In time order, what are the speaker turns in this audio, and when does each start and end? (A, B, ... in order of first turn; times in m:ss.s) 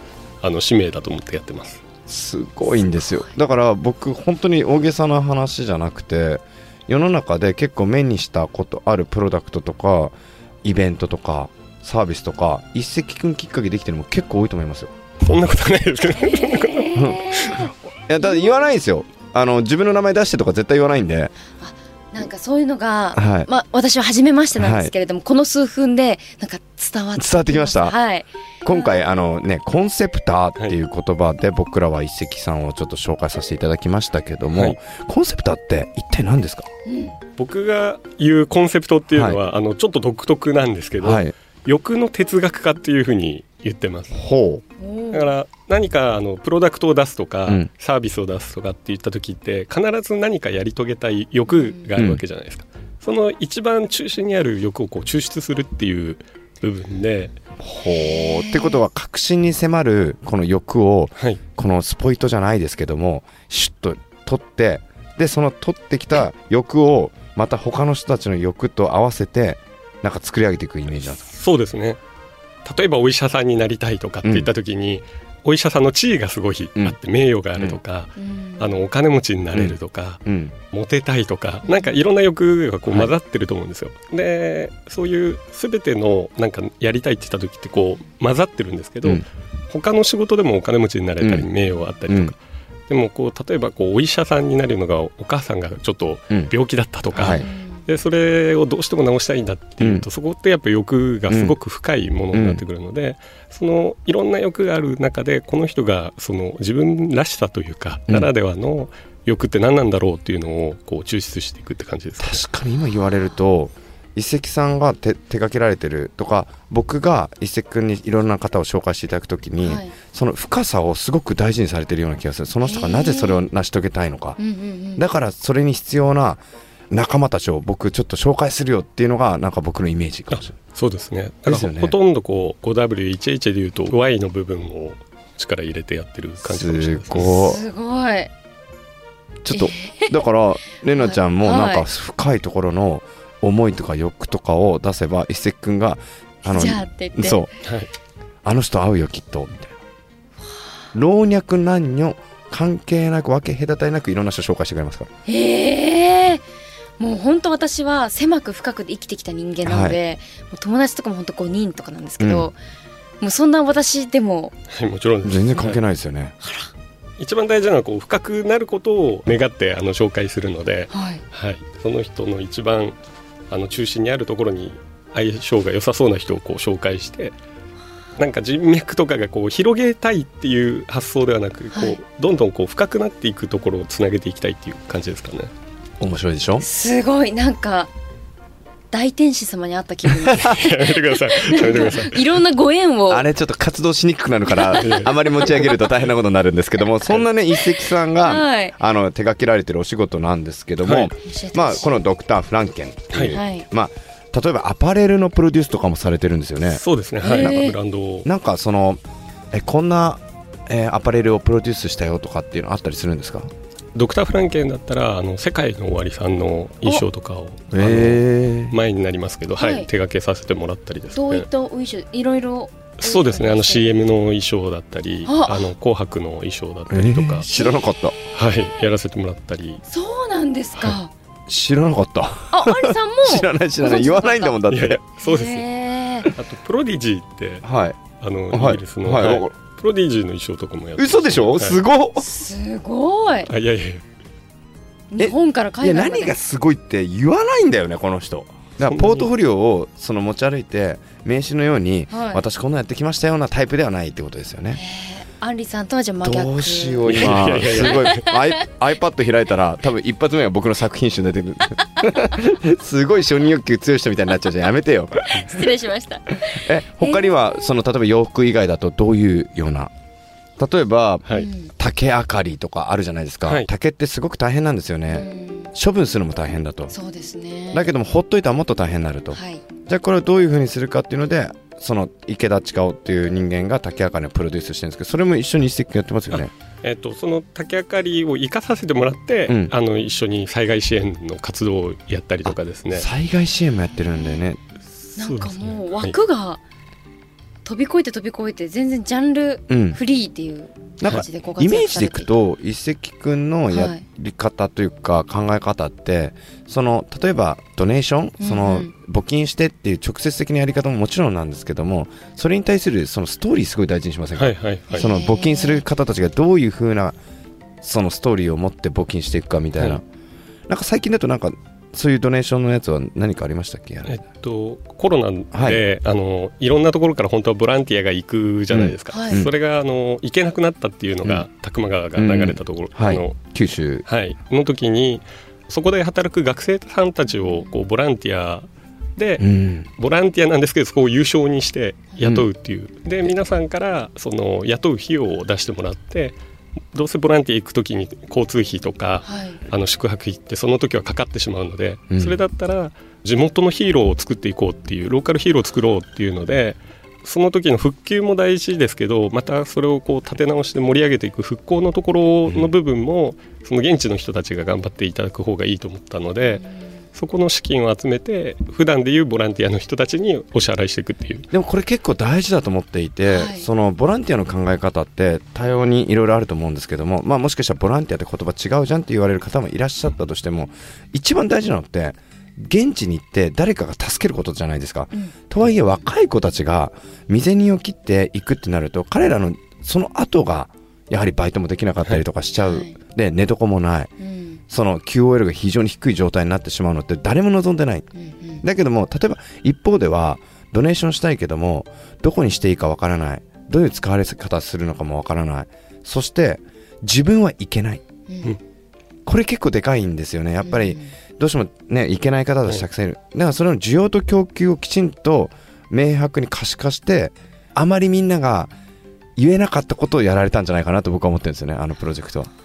0:00.4-0:01.8 A
0:02.1-0:14.9 B
0:15.2-0:17.6 A
0:16.2-0:18.6 C
0:16.9-0:17.4 B
0:18.1-0:21.3 B
0:21.6-0:29.0 C
0:23.1-0:23.5 B
0:24.5-0:24.9 B
0:27.2-0:28.0 B
0:28.6-0:36.7 B
0:36.8-0:37.1 C
0:37.4-0:44.2 A
0:39.1-0:39.4 B
0:41.0-0:41.3 B
0:44.1-0:44.6 B
0:44.8-0:45.3 C
0:45.1-0:57.4 A
0:52.0-0:52.2 B
0:57.6-1:11.2 B
0:57.8-0:58.8 C
1:11.2-1:12.0 A
1:12.6-1:52.4 A
1:14.2-1:14.5 B
1:18.2-1:18.8 C
1:19.5-1:20.6 B
1:21.6-1:21.9 C
1:22.9-1:23.1 B
1:31.2-1:31.5 B
1:32.1-1:32.3 B
1:37.1-1:37.5 B
1:37.3-1:37.8 C
1:41.3-1:41.6 B
1:42.3-1:42.6 B
1:52.2-2:04.4 B
1:59.6-1:59.9 C
2:02.6-2:03.5 C
2:04.4-2:05.0 C
2:05.0-2:10.5 B
2:10.3-2:17.5 A
2:11.5-2:12.0 B
2:16.4-2:17.6 B
2:17.1-2:18.3 C
2:19.4-2:27.5 B
2:19.5-2:20.2 C
2:21.0-2:21.9 C
2:26.4-2:27.5 C
2:27.6-2:27.9 A
2:28.4-2:29.8 B
2:30.9-2:35.1 B
2:35.2-2:36.4 C
2:37.0-2:42.6 C
2:39.6-2:40.0 B
2:42.2-2:42.5 B
2:43.2-2:44.5 C
2:44.7-2:45.8 A
2:45.2-2:46.3 B
2:46.4-2:46.7 C
2:47.2-2:53.0 A
2:50.9-2:51.2 C
2:53.5-2:57.4 A
2:58.2-3:05.5 A
3:06.0-3:06.6 B
3:06.6-3:07.9 C
3:08.9-3:13.2 C
3:10.2-3:12.4 A
3:13.1-3:26.8 B
3:14.5-3:15.8 C
3:14.7-3:15.6 A
3:18.2-3:18.8 C
3:20.8-3:21.1 A
3:21.2-3:22.0 C
3:23.3-3:23.6 C
3:26.6-3:28.3 A
3:27.2-3:27.8 C
3:28.2-3:29.0 B
3:29.5-3:33.5 B
3:33.9-3:41.5 A
3:37.7-3:38.8 B
3:39.6-3:39.9 C
3:41.1-3:43.9 C
3:43.0-3:47.5 A
3:45.2-3:45.7 C
3:46.9-3:48.2 B
3:48.3-3:49.8 A
3:49.9-3:51.1 C
3:51.5-3:55.0 B
3:52.5-3:54.6 C
3:54.7-3:55.6 A
3:55.2-3:56.3 C
3:56.3-3:57.6 A
3:57.6-3:58.0 B
3:58.2-4:01.8 A
3:58.5-3:59.5 B
4:01.0-4:02.3 B
4:02.2-4:03.5 C
4:03.5-4:04.0 A
4:05.1-4:06.3 C
4:05.2-4:14.8 B
4:08.8-4:09.3 A
4:12.1-4:12.4 C
4:14.8-4:18.4 C
4:16.2-4:25.7 B
4:17.0-4:18.3 A
4:25.3-4:27.3 C
4:26.3-4:29.9 B
4:30.6-4:36.9 B
4:31.3-4:31.7 C
4:35.1-4:35.7 C
4:36.9-4:37.9 C
4:37.7-4:46.5 B
4:39.3-4:39.6 C
4:46.3-4:53.1 A
4:49.5-4:49.7 B
4:52.4-4:54.6 B
4:55.2-4:56.1 A
4:55.2-4:56.6 C
4:57.6-5:02.3 C
4:59.7-5:00.0 B
5:01.0-5:17.2 B
5:03.7-5:04.0 C
5:08.4-5:08.9 C
5:14.4-5:15.1 A
5:14.9-5:15.8 C
5:17.8-5:20.0 B
5:20.7-5:24.2 B
5:24.0-5:33.4 A
5:25.5-5:25.8 B
5:28.7-5:29.5 B
5:29.1-5:29.4 C
5:32.2-5:34.0 B
5:34.0-5:46.4 A
5:39.4-5:39.9 B
5:42.2-5:42.4 B
5:46.9-6:06.6 A
5:49.2-5:49.6 C
5:52.1-5:52.4 B
6:07.1-6:11.5 A
6:11.5-6:34.1 B
6:13.2-6:13.7 C
6:32.6-6:33.0 C
6:34.2-6:34.6 C
6:34.7-6:38.1 B
6:38.2-6:38.6 C
6:38.6-6:48.0 B
6:48.3-6:48.6 C
6:49.2-6:58.7 B
6:50.6-6:51.1 C
6:59.4-7:02.5 B